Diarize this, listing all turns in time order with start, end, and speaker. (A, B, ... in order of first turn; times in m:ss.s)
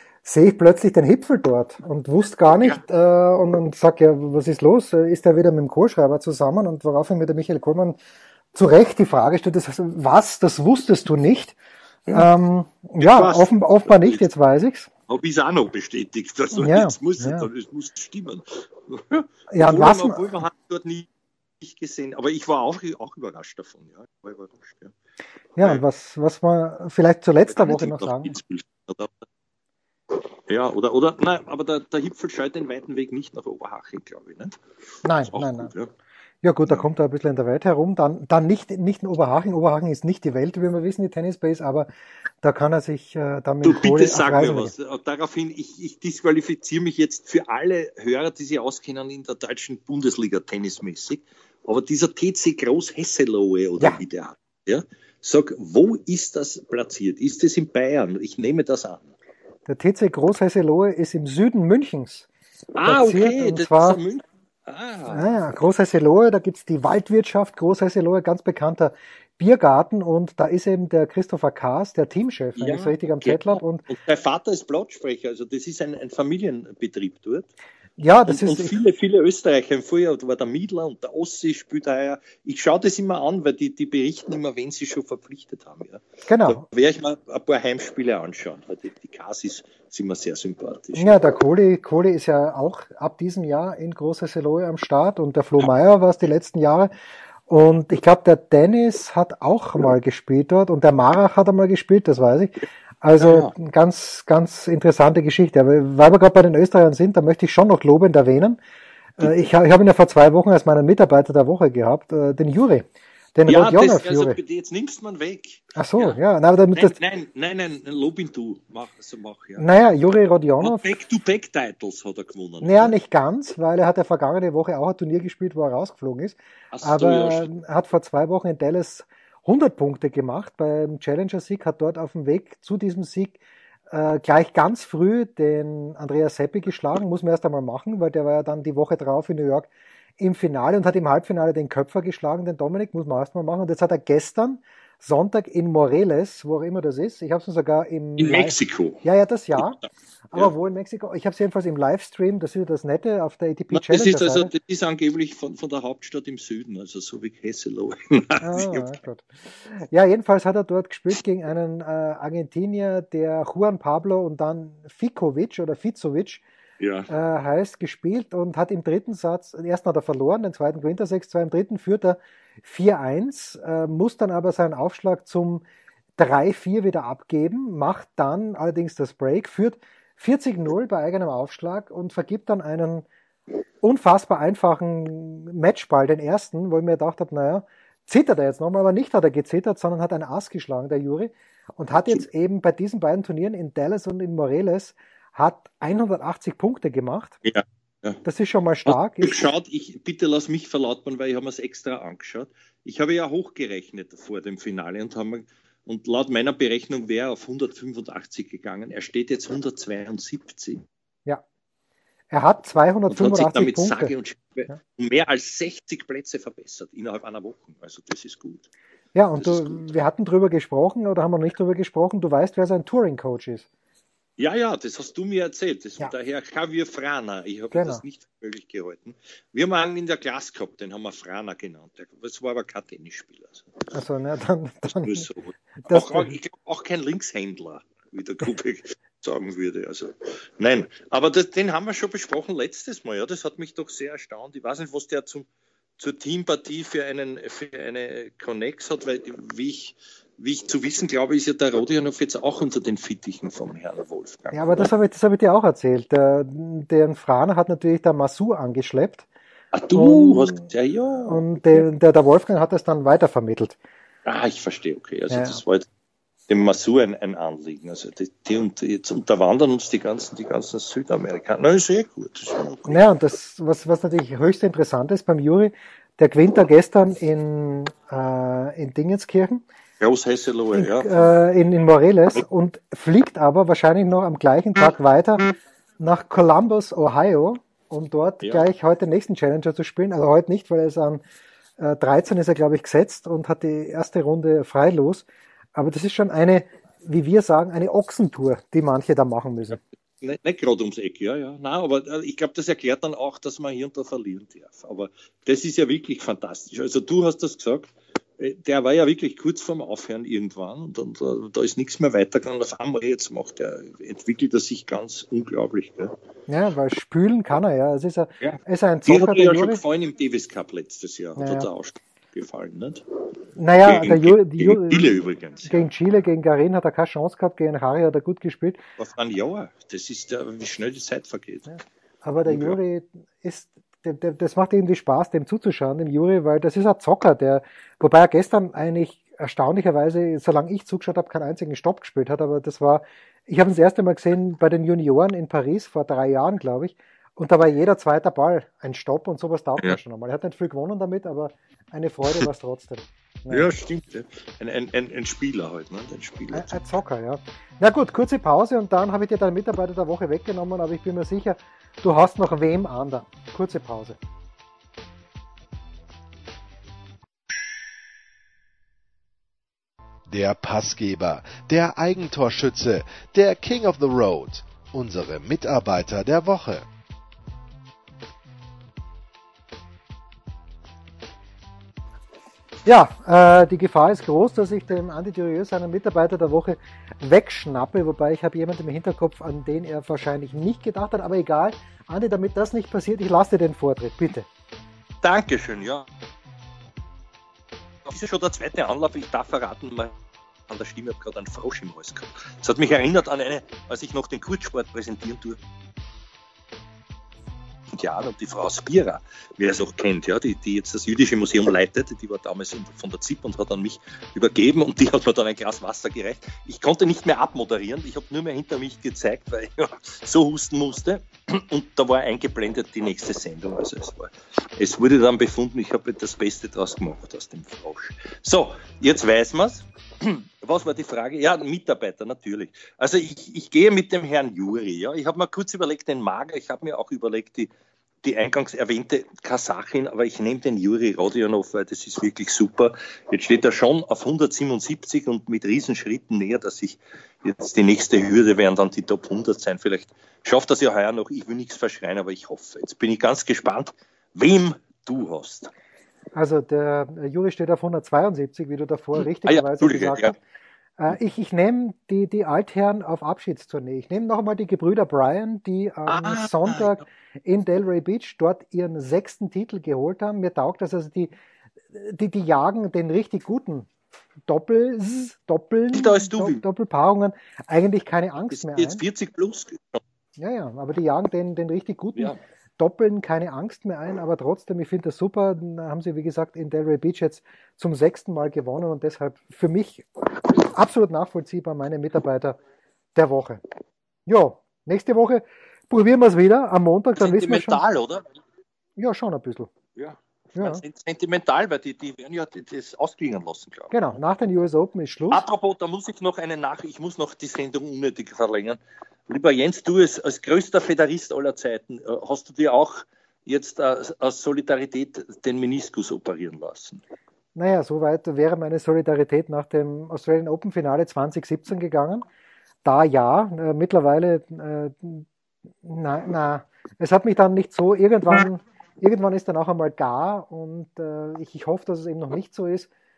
0:00.2-0:08.0 A
0:08.5-0:11.6 A
0:12.1-0:14.9 A
0:13.0-0:14.2 B
0:15.1-0:21.1 B
0:16.5-0:17.5 A
0:19.5-0:20.2 A
0:21.6-0:24.9 B
0:25.6-0:28.4 A
0:27.5-0:29.3 B
0:30.5-0:34.6 B
0:35.0-0:35.7 A
0:35.2-0:35.9 B
0:36.4-0:41.9 A
0:42.4-0:44.7 A
0:43.6-0:59.1 B
0:59.7-1:02.3 A
1:02.8-1:05.4 B
1:02.9-1:04.0 A
1:05.1-1:13.9 A
1:12.6-1:17.5 B
1:18.0-1:18.8 A
1:18.3-1:31.2 B
1:26.3-1:26.6 A
1:31.0-1:36.9 A
1:37.5-1:48.6 A
1:43.2-1:43.5 B
1:49.2-1:54.4 A
1:53.5-1:56.2 B
1:55.8-1:57.0 A
1:56.7-1:59.7 B
1:59.6-2:01.0 A
2:00.6-2:02.9 B
2:02.6-2:13.4 A
2:06.7-2:07.5 B
2:13.9-2:29.8 A
2:28.2-2:29.0 B
2:29.6-2:30.5 B
2:30.3-2:34.5 A
2:33.7-2:39.0 B
2:38.4-2:46.4 A
2:46.8-2:47.1 B
2:47.1-2:55.6 A
2:56.2-3:03.1 A
3:03.8-3:17.4 A
3:17.4-3:18.2 B
3:18.2-3:19.5 A
3:18.9-3:30.8 B
3:32.3-3:34.1 A
3:33.1-3:38.7 B
3:39.1-3:43.7 A
3:39.4-3:39.9 B
3:44.4-3:53.8 B
3:47.7-3:48.0 A
3:53.9-3:55.3 A
3:54.9-4:14.9 B
3:55.8-3:56.3 A
4:14.5-4:19.3 A
4:19.7-4:21.9 B
4:19.9-4:20.7 A
4:21.2-4:23.8 A
4:24.3-4:25.9 B
4:25.3-4:25.6 A
4:26.5-4:33.0 B
4:32.9-4:39.6 A
4:40.0-4:41.3 B
4:40.8-4:51.2 A
4:51.8-4:59.8 A
5:00.2-5:16.1 B
5:16.5-5:19.8 A
5:18.4-5:23.0 B
5:21.4-5:21.7 A
5:23.6-5:28.8 A
5:23.8-5:25.9 B
5:29.0-5:31.8 B
5:32.2-5:53.7 A
5:32.5-5:32.8 B
5:53.5-5:56.9 B
5:56.5-6:04.2 A
6:10.3-6:16.8 C
6:22.8-6:34.5 A
6:35.2-6:36.1 B
6:38.1-6:40.2 B
6:40.7-6:45.6 B
6:47.9-7:17.7 B
7:18.2-7:35.7 B
7:36.3-7:40.4 A
7:39.2-7:40.4 B
7:41.0-7:51.3 A
7:46.1-7:47.0 B
7:51.9-7:53.9 A
7:54.5-7:59.0 A
7:55.9-7:56.6 B
7:58.5-8:00.0 B
8:00.4-8:12.6 A
8:13.2-8:13.6 A
8:14.3-8:17.8 A
8:17.2-8:18.3 B
8:19.0-8:19.7 A
8:20.0-8:23.9 B
8:20.6-8:20.8 A
8:23.9-8:25.4 A
8:25.3-8:37.0 B
8:37.6-8:42.2 A
8:42.8-8:45.3 A
8:45.8-8:52.9 A